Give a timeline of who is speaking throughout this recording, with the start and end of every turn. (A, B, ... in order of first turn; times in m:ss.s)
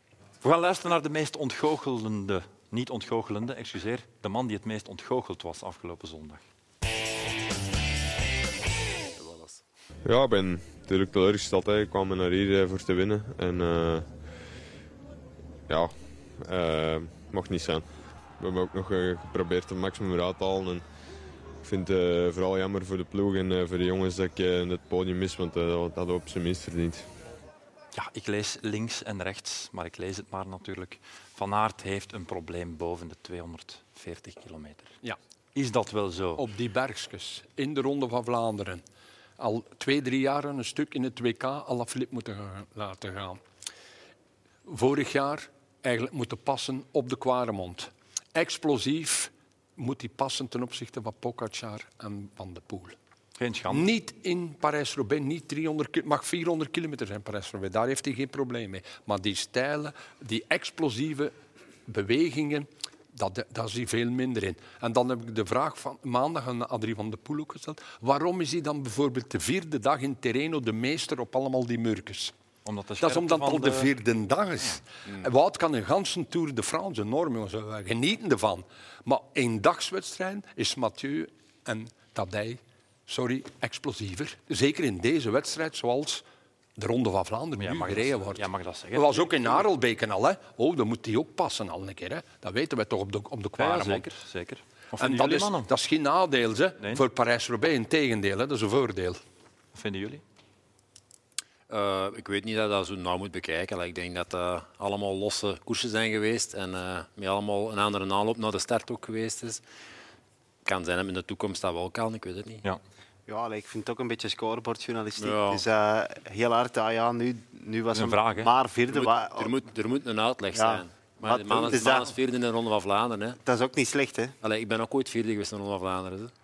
0:00.4-0:06.4 A
0:09.1-0:09.6 B
0:10.1-0:14.2 C
0:15.7-0:20.8 C
0:21.6-0:27.1 C
0:27.9-0:34.9 A
0:35.6-0:36.5 A
0:36.4-0:38.8 D
0:39.4-0:43.4 D
0:44.7-0:53.0 D
0:53.4-0:53.9 A
0:53.7-1:01.3 D
1:01.9-1:12.3 D
1:12.6-1:13.9 A
1:13.0-1:26.2 D
1:26.8-1:34.1 D
1:27.6-1:29.3 A
1:33.6-1:35.7 A
1:35.0-1:39.2 D
1:39.7-1:40.2 A
1:41.7-1:49.6 B
1:50.6-1:52.6 B
1:53.3-1:59.6 E
1:55.2-1:55.6 B
1:57.9-1:58.5 A
1:58.9-2:03.4 B
2:00.6-2:02.1 E
2:03.5-2:04.3 E
2:04.4-2:06.3 B